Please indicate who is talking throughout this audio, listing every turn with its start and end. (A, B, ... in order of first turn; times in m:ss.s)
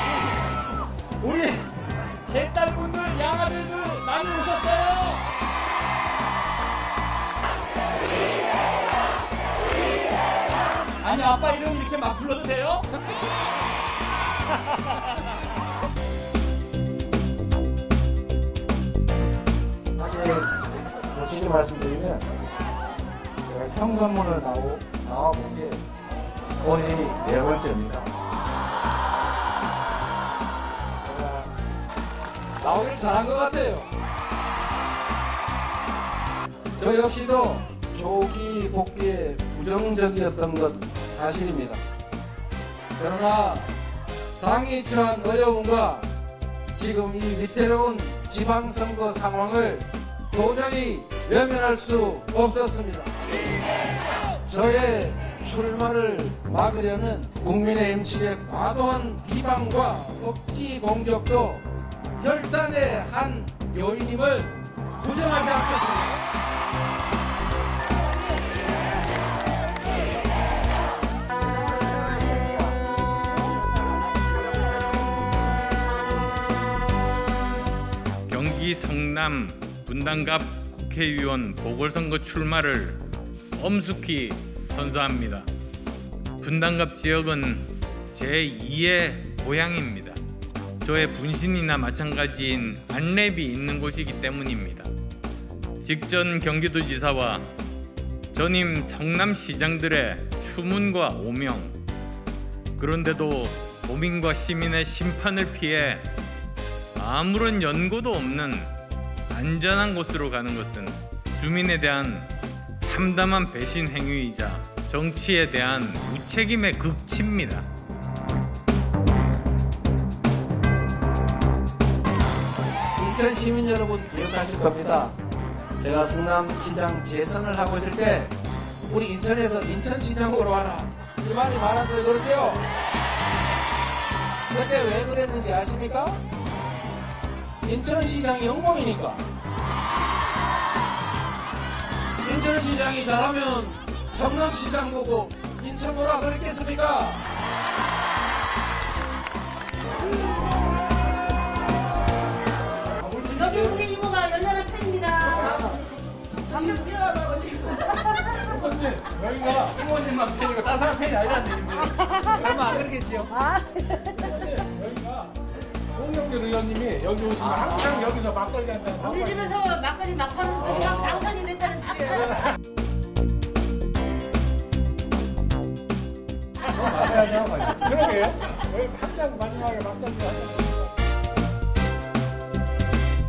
0:01.2-0:01.7 A
0:02.2-0:05.2 A
0:11.0-0:12.9 A
0:20.0-0:22.3 B
0:23.5-0:25.8 B
0:26.6-0:28.1 B
0:31.0-0:31.5 B
0:32.6-0:33.9 B
0:36.8-0:41.8 B
0:43.0-0:43.7 B
0:44.4-0:46.1 B
0:46.8-0:53.1 B
0:54.5-1:01.6 B
1:02.2-1:06.2 B
1:18.3-1:23.0 C
1:23.6-1:25.5 C
1:26.4-1:30.2 C
1:30.8-1:34.9 C
1:35.8-1:37.5 C
1:38.3-1:41.8 C
1:42.8-1:46.1 C
1:47.0-1:48.7 C
1:49.3-1:57.7 C
2:03.0-2:05.2 B
2:05.8-2:08.4 B
2:08.9-2:12.6 B
2:14.5-2:16.2 B
2:17.6-2:19.2 B
2:22.2-2:27.2 B
2:33.0-2:33.5 B
2:33.4-2:35.7 D
2:36.5-2:38.4 D
2:38.5-2:39.7 E
2:39.6-2:43.4 B
2:43.4-2:43.8 D
2:44.2-2:45.4 E
2:45.9-2:49.4 E
2:47.6-2:48.0 B
2:49.0-2:52.3 D
2:57.1-2:57.8 B
2:57.8-3:01.0 E